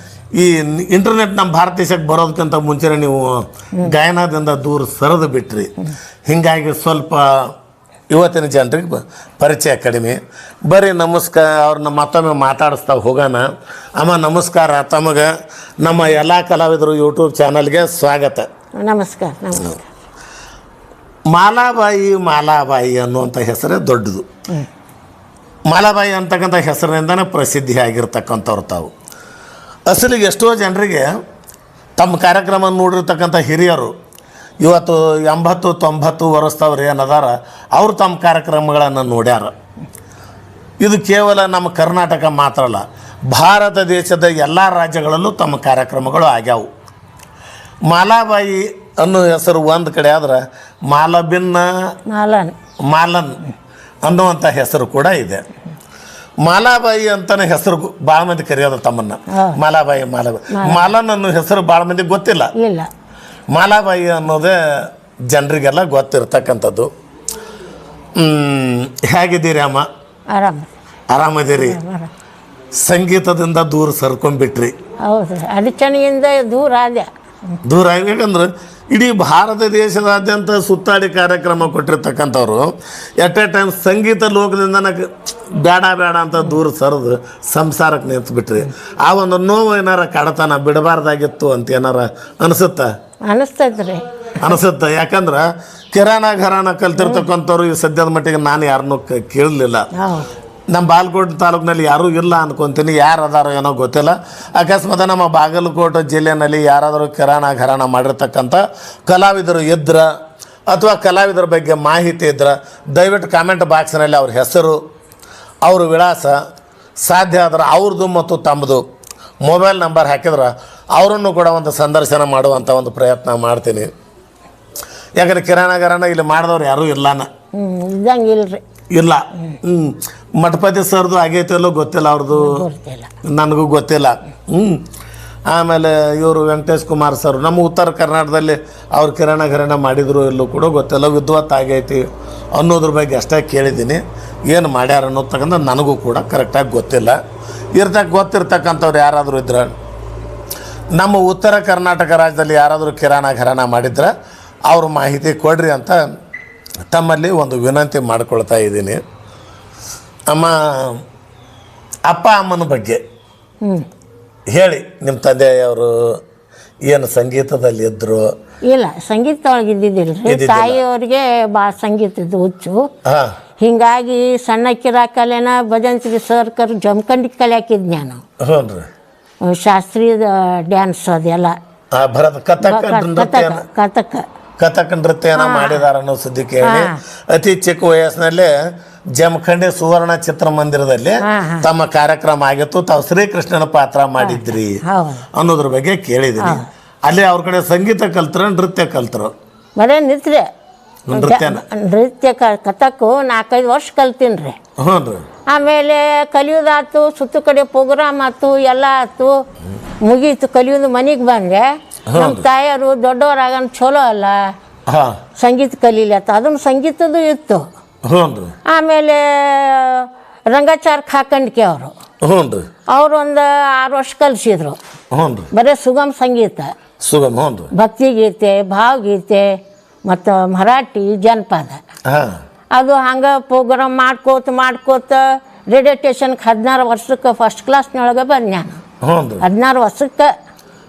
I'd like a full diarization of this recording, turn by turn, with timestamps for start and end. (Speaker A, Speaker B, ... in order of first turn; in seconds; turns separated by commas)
Speaker A: 0.3-5.7, Speaker A: 6.3-7.5, Speaker A: 8.1-13.4, Speaker A: 14.0-18.5, Speaker B: 18.8-19.9, Speaker A: 21.3-24.3, Speaker A: 25.7-28.9, Speaker A: 29.9-31.1, Speaker A: 32.0-33.9, Speaker A: 34.6-39.5, Speaker A: 40.8-46.7, Speaker A: 47.9-51.9, Speaker B: 52.1-52.6, Speaker A: 52.9-53.4, Speaker A: 54.0-55.4, Speaker A: 56.4-62.5, Speaker B: 59.3-59.6, Speaker B: 60.5-60.9, Speaker B: 62.6-62.9, Speaker A: 63.5-66.9, Speaker A: 68.2-69.9, Speaker B: 70.3-70.7, Speaker A: 71.1-71.8, Speaker B: 71.5-72.1, Speaker A: 72.8-74.7, Speaker B: 75.0-77.1, Speaker A: 77.7-82.7, Speaker A: 83.2-92.9, Speaker B: 93.3-94.5, Speaker A: 94.4-99.9, Speaker B: 97.0-97.3, Speaker B: 100.0-100.3, Speaker A: 100.7-110.0, Speaker A: 110.7-114.8, Speaker A: 115.7-116.4, Speaker A: 117.0-118.8, Speaker A: 119.4-123.9, Speaker A: 125.2-127.3, Speaker B: 127.5-128.6, Speaker A: 128.9-132.6, Speaker B: 132.3-133.1, Speaker A: 133.2-134.8, Speaker A: 135.5-147.2, Speaker A: 147.7-149.7, Speaker A: 151.0-154.1, Speaker A: 154.7-156.0, Speaker A: 156.9-159.0, Speaker A: 160.3-161.0, Speaker A: 162.1-163.0, Speaker A: 164.5-166.2, Speaker A: 166.9-168.3, Speaker B: 168.7-172.9, Speaker A: 170.3-170.8, Speaker A: 173.1-173.3, Speaker B: 173.6-178.2, Speaker A: 178.4-178.9, Speaker B: 179.5-181.6, Speaker A: 181.9-183.7, Speaker B: 182.6-184.2, Speaker A: 184.6-188.5, Speaker B: 185.4-185.8, Speaker B: 186.6-187.0, Speaker A: 189.2-194.8, Speaker B: 191.2-191.7, Speaker B: 194.2-195.2, Speaker A: 195.3-199.3, Speaker B: 199.8-200.5, Speaker A: 201.1-201.6, Speaker B: 201.1-204.6, Speaker A: 204.8-205.2, Speaker B: 205.5-209.4, Speaker B: 210.0-214.5, Speaker A: 212.1-212.4, Speaker A: 214.9-215.1, Speaker B: 215.4-217.7, Speaker A: 218.1-218.5, Speaker B: 218.7-221.9, Speaker A: 222.2-222.7, Speaker B: 222.9-224.8, Speaker A: 225.1-225.5, Speaker B: 225.5-226.7, Speaker A: 227.0-227.7, Speaker B: 227.7-231.8, Speaker A: 232.1-232.3, Speaker B: 232.7-238.8, Speaker A: 239.0-239.4, Speaker B: 239.4-240.3